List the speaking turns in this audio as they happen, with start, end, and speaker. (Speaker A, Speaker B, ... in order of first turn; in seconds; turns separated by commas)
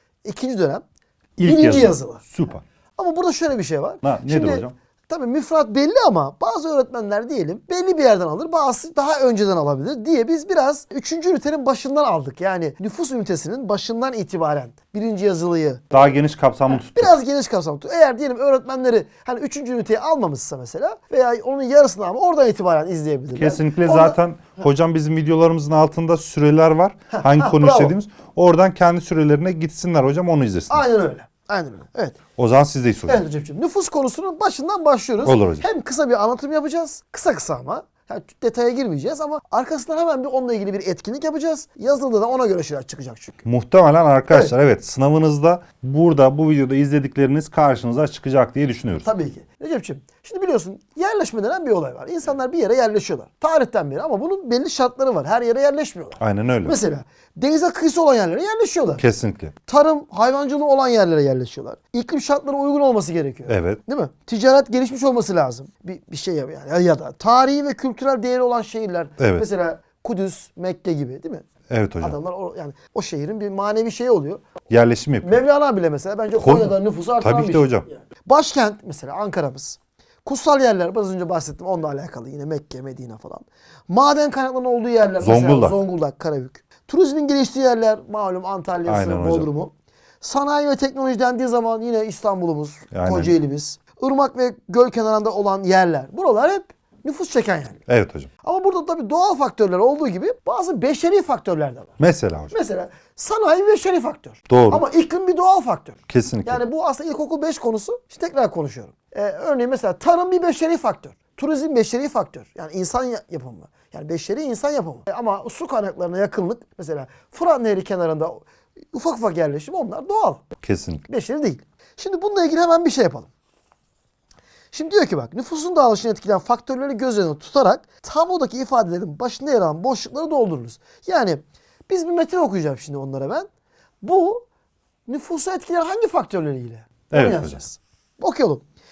Speaker A: 0.2-0.8, Speaker B: 1.4-2.6, Speaker A: 1.4-2.2, Speaker A: 3.0-15.9, Speaker B: 4.0-4.7, Speaker B: 15.9-17.1, Speaker A: 16.8-24.1, Speaker B: 23.4-30.8, Speaker A: 27.1-27.9, Speaker A: 30.7-32.2, Speaker B: 32.4-33.2, Speaker A: 33.0-43.4, Speaker B: 35.2-35.6, Speaker B: 43.4-49.1, Speaker A: 49.0-59.0, Speaker B: 56.2-56.8, Speaker B: 59.0-59.5, Speaker A: 59.7-71.4, Speaker B: 63.5-63.8, Speaker B: 69.2-69.5, Speaker B: 71.7-72.2, Speaker A: 72.0-74.5, Speaker B: 74.7-75.4, Speaker A: 75.2-97.8, Speaker B: 76.4-77.9, Speaker B: 85.2-85.8, Speaker B: 88.8-89.5, Speaker B: 92.9-93.3, Speaker B: 97.9-98.3, Speaker A: 98.4-102.0, Speaker B: 102.0-102.5, Speaker A: 102.5-120.4, Speaker B: 104.5-104.8, Speaker B: 106.1-106.6, Speaker B: 120.6-121.0, Speaker A: 121.1-123.3, Speaker A: 124.7-133.5, Speaker A: 134.0-134.4, Speaker A: 135.1-138.6, Speaker B: 137.1-137.6